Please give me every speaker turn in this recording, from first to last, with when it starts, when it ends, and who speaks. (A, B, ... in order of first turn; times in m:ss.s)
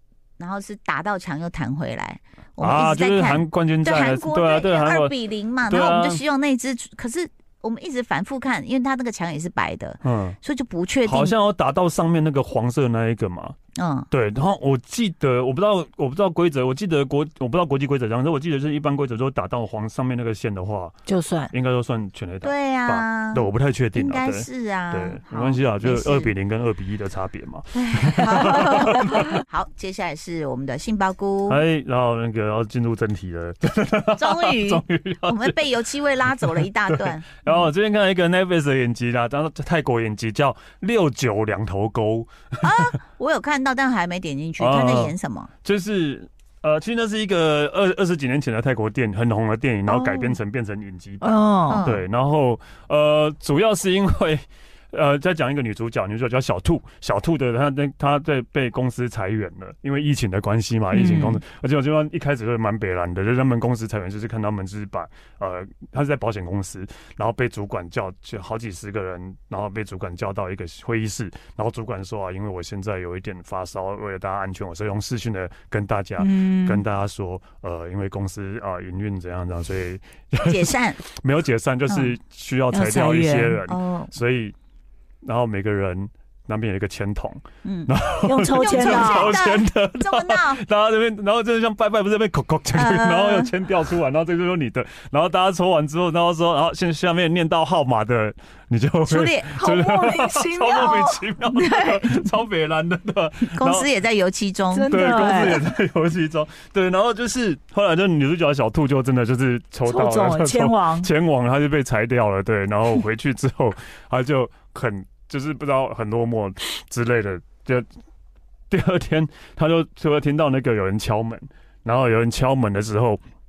0:00.4-0:11.3 A
0:02.6-0:06.2 B
0:10.0-0:10.4 B
0:11.0-0:13.6 B
0:13.8-0:14.1 A
0:14.1-0:20.9 B
0:21.1-0:21.5 C
0:21.5-0:29.3 B
0:22.4-0:26.3 A
0:27.7-0:31.6 A
0:31.5-0:42.9 B
0:34.2-0:37.6 A
0:42.6-0:45.5 A
0:44.6-1:24.6 B
0:49.9-0:50.4 A
0:51.2-0:51.8 C
0:51.7-0:52.0 A
1:00.9-1:01.4 C
1:16.2-1:16.8 C
1:20.4-1:21.0 A
1:22.7-1:23.6 C
1:23.7-1:24.1 A
1:25.2-1:43.9 B
1:27.6-1:27.9 A
1:28.2-1:29.4 C
1:28.5-1:30.6 A
1:32.7-1:33.5 A
1:39.1-1:39.6 A
1:39.6-1:41.2 C
1:41.5-1:42.2 A
1:43.5-1:45.1 A
1:44.7-1:45.6 C
1:44.9-1:57.9 B
1:49.9-1:51.1 C
1:58.7-2:03.2 B